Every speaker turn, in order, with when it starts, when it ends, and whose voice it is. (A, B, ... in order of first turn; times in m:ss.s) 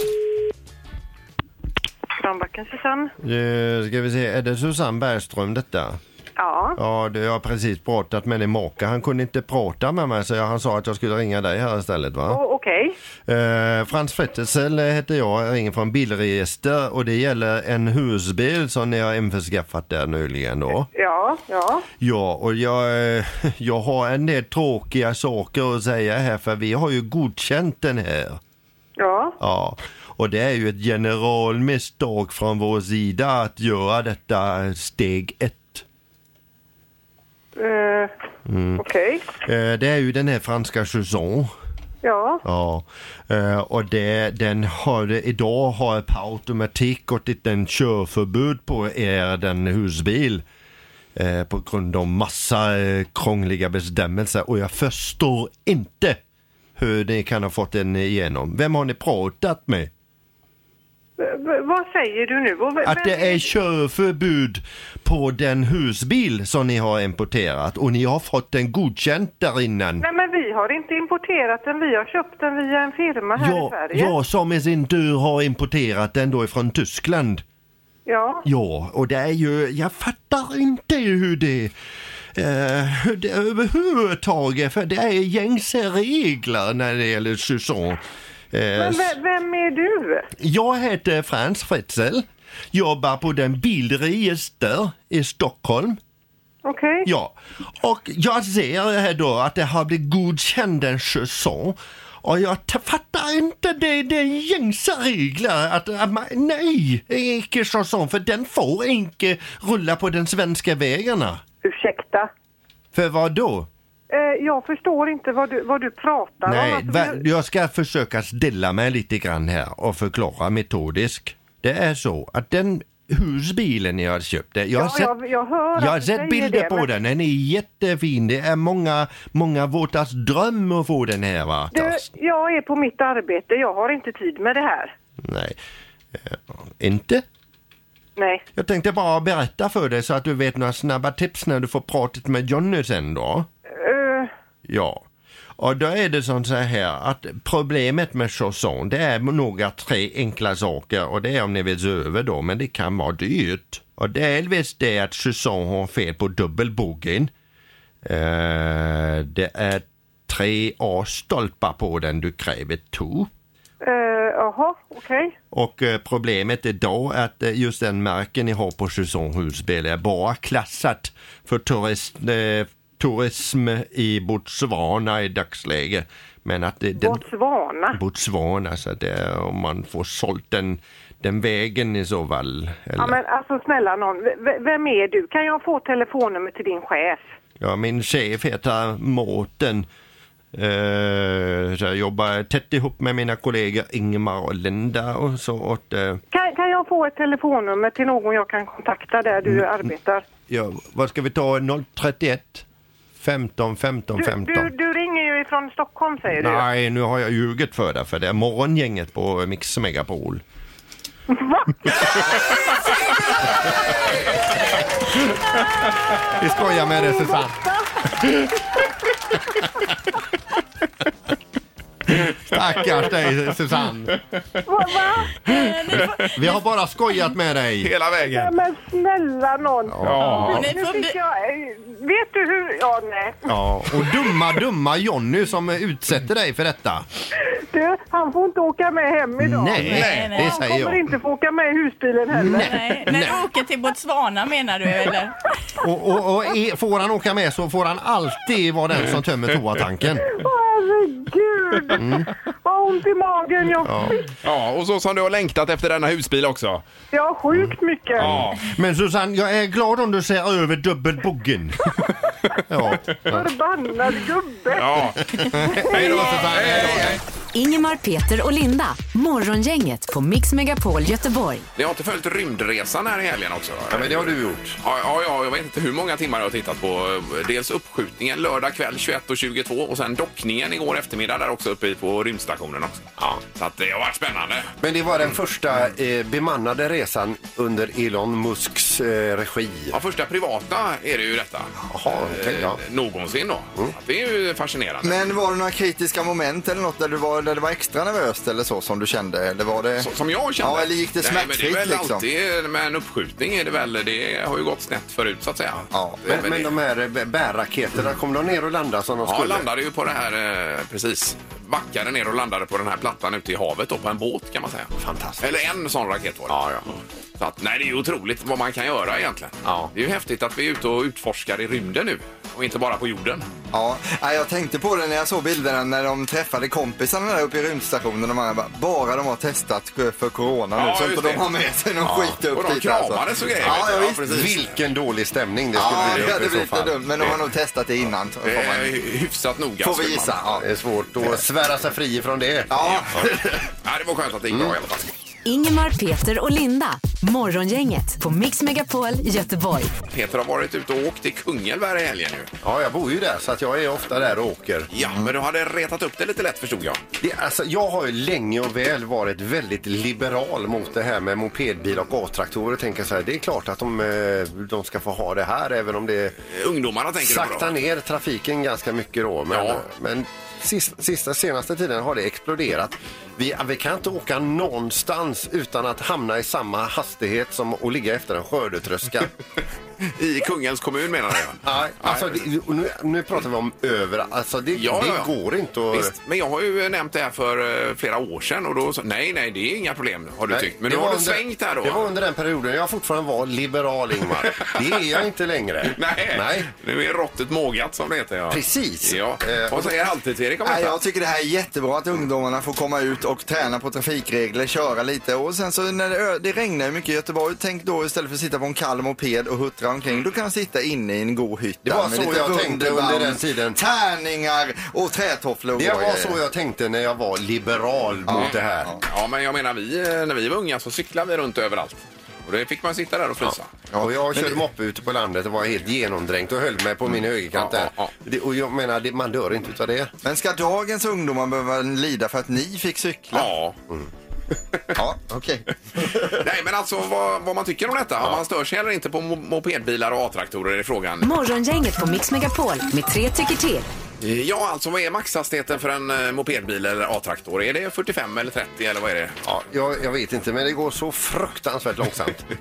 0:02.2-0:03.1 A
0:03.2-0:06.0 B
0:06.4-0:06.8 A
0:06.8-0:12.4 B
0:12.3-0:13.0 A
0:13.2-0:20.9 B
0:20.9-0:21.9 A
0:22.0-0:28.4 B
0:29.0-0:29.4 A
0:29.4-0:35.8 B
0:37.6-0:38.1 A
0:38.4-0:38.8 B
0:38.8-0:39.3 A
0:39.4-0:41.5 B
0:42.0-0:42.4 A
0:42.4-0:50.4 B
0:51.2-0:56.2 B
0:56.8-0:59.9 B
1:01.2-1:03.5 A
1:02.8-1:10.0 B
1:10.0-1:14.1 A
1:13.4-1:17.4 B
1:18.1-1:18.4 A
1:18.4-1:21.7 B
1:22.3-1:28.0 B
1:28.5-1:29.1 B
1:28.8-1:30.3 A
1:30.4-1:36.0 B
1:36.6-1:37.1 A
1:37.0-1:51.4 B
1:51.6-1:52.3 A
1:52.9-1:53.7 B
1:54.1-1:57.2 A
1:56.4-2:05.2 B
2:04.8-2:06.9 A
2:05.7-2:12.1 B
2:11.7-2:14.9 A
2:15.2-2:15.6 B
2:16.1-2:17.2 B
2:18.2-2:18.4 A
2:18.5-2:23.5 B
2:23.7-2:24.3 A
2:24.6-2:25.0 B
2:25.6-2:37.3 B
2:38.0-2:43.3 B
2:43.8-2:45.3 A
2:45.5-2:57.2 B
2:57.0-2:58.0 A
2:57.9-3:03.2 B
3:03.0-3:07.2 A
3:07.6-3:09.9 B
3:10.5-3:16.2 B
3:16.3-3:20.2 A
3:19.4-3:19.8 B
3:20.5-3:22.6 B
3:23.2-3:24.7 B
3:24.2-3:26.6 A
3:26.4-3:30.4 B
3:32.1-3:32.9 C
3:36.3-3:37.6 B
3:36.8-3:37.9 A
3:42.5-3:44.1 B
3:44.7-3:45.6 A
3:45.5-3:46.6 D
3:46.3-3:47.9 B
3:47.8-3:48.5 C
3:48.3-3:53.4 A
3:50.0-3:50.4 B
3:50.0-3:50.6 C
3:50.2-3:51.2 D
3:53.5-3:57.0 B
3:57.5-4:02.7 A
3:59.4-4:01.0 B
3:59.8-4:00.6 D
3:59.9-4:00.3 C
4:02.3-4:03.4 B
4:02.5-4:05.3 D
4:05.8-4:10.3 B
4:10.2-4:14.2 A
4:12.0-4:12.3 B
4:13.8-4:14.2 B
4:14.4-4:16.8 C
4:17.1-4:18.3 A
4:18.2-4:18.6 C
4:18.2-4:21.9 B
4:22.6-4:23.5 B
4:23.3-4:25.1 A
4:24.8-4:25.2 C
4:25.6-4:27.2 B
4:25.7-4:26.3 A
4:25.9-4:27.2 C
4:26.7-4:27.0 E
4:27.5-4:31.6 F
4:31.8-4:44.7 C
4:33.9-4:34.8 E
4:44.8-4:50.0 E
4:49.9-4:55.2 C
4:51.9-4:52.8 E
4:55.0-5:00.1 G
5:00.0-5:06.7 C
5:00.6-5:02.2 G
5:05.9-5:06.2 G
5:06.3-5:09.7 E
5:09.2-5:16.8 C
5:15.0-5:15.6 E
5:16.5-5:16.8 E
5:17.4-5:23.5 C
5:19.6-5:19.9 E
5:23.7-5:34.4 G
5:30.7-5:31.4 C
5:32.5-5:34.8 C
5:33.6-5:37.0 E
5:35.7-5:38.9 G
5:35.8-5:36.3 C
5:38.4-5:40.6 C
5:39.8-5:40.6 G
5:40.6-5:43.2 E
5:42.7-5:43.6 G
5:43.8-5:45.1 C
5:45.4-5:49.9 F
5:50.1-5:52.5 C
5:52.6-5:54.9 E
5:54.9-5:57.0 C
5:57.2-6:06.3 E
6:06.5-6:07.7 C
6:07.2-6:19.3 E
6:09.5-6:09.8 C
6:20.2-6:22.4 C
6:21.6-6:26.1 E
6:24.7-6:25.3 C
6:25.9-6:32.1 C
6:30.5-6:36.7 E
6:35.8-6:41.0 C
6:38.5-6:39.9 E
6:40.6-6:56.4 G
6:51.8-6:53.8 E
6:55.8-6:58.9 E
6:58.3-6:59.0 G
6:58.3-7:03.7 C
7:03.4-7:10.1 E
7:03.9-7:04.6 G
7:07.5-7:08.1 C
7:10.2-7:13.5 G
7:13.3-7:13.8 C
7:14.9-7:16.3 G
7:16.3-7:21.2 C
7:21.2-7:23.9 F
7:24.2-7:29.4 C
7:29.4-7:32.4 E